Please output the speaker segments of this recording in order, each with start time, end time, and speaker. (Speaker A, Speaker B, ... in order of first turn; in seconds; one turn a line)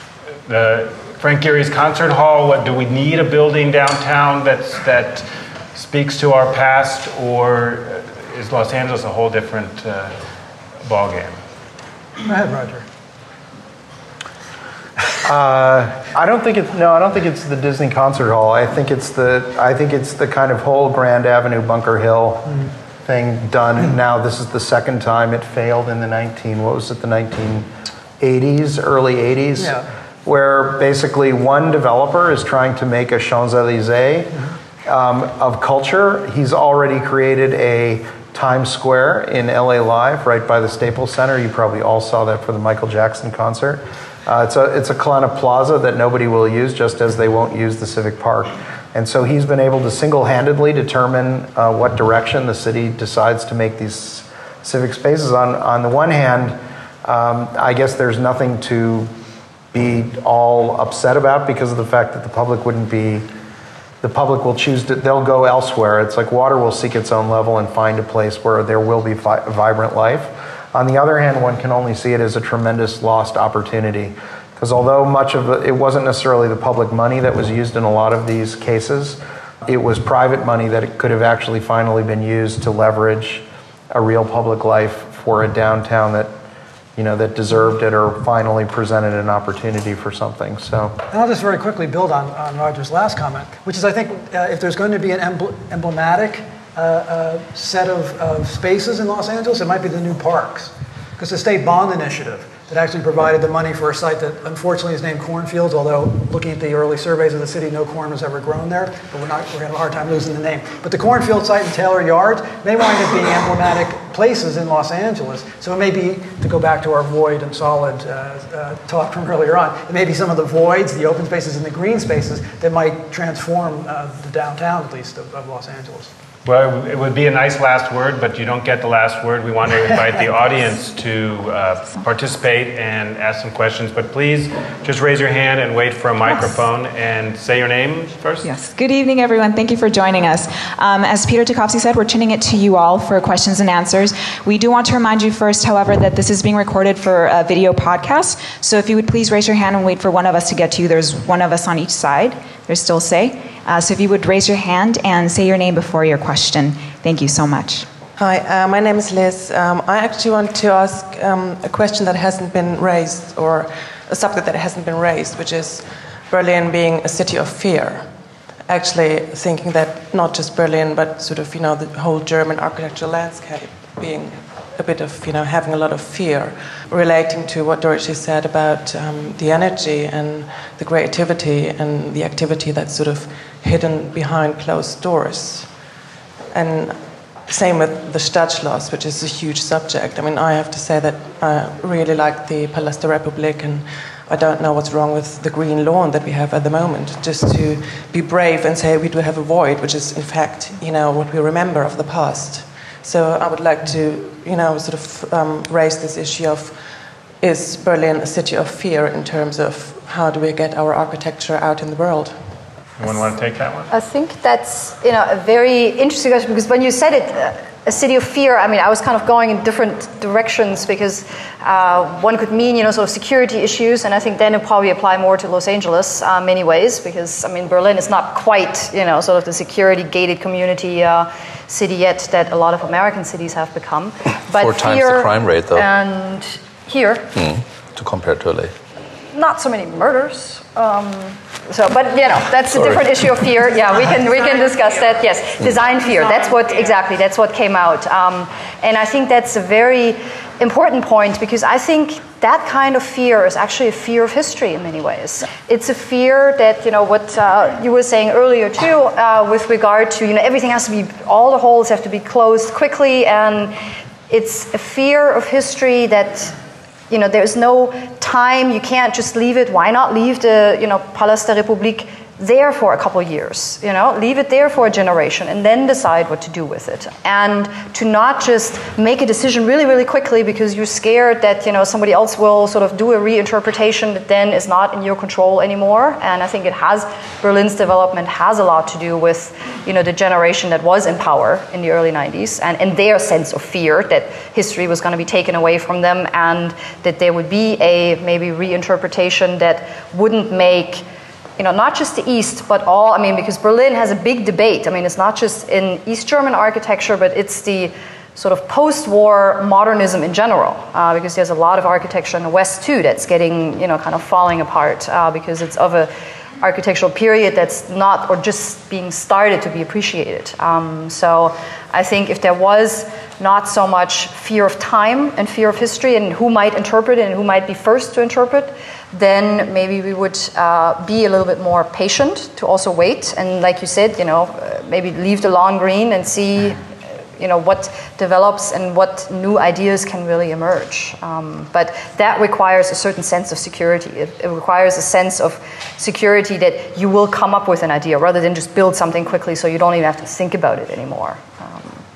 Speaker A: 0.5-10.2
Speaker A: 10.8-11.4
Speaker B: 12.2-12.8
Speaker C: 15.2-27.7
Speaker C: 28.2-34.3
Speaker B: 29.6-29.9
Speaker C: 34.8-59.1
Speaker C: 59.7-63.2
Speaker C: 64.0-86.3
Speaker C: 87.0-91.0
Speaker B: 91.1-126.1
Speaker A: 126.4-138.5
Speaker D: 136.3-136.5
Speaker D: 138.4-157.8
Speaker E: 158.2-185.9
Speaker E: 186.5-206.8
Speaker E: 207.4-212.4
Speaker A: 213.0-213.9
Speaker F: 213.9-237.3
Speaker G: 234.5-235.8
Speaker G: 237.3-238.7
Speaker F: 239.3-263.7
Speaker G: 242.8-243.1
Speaker F: 264.3-266.5
Speaker F: 267.1-301.0
Speaker F: 301.6-336.8
Speaker F: 337.4-352.0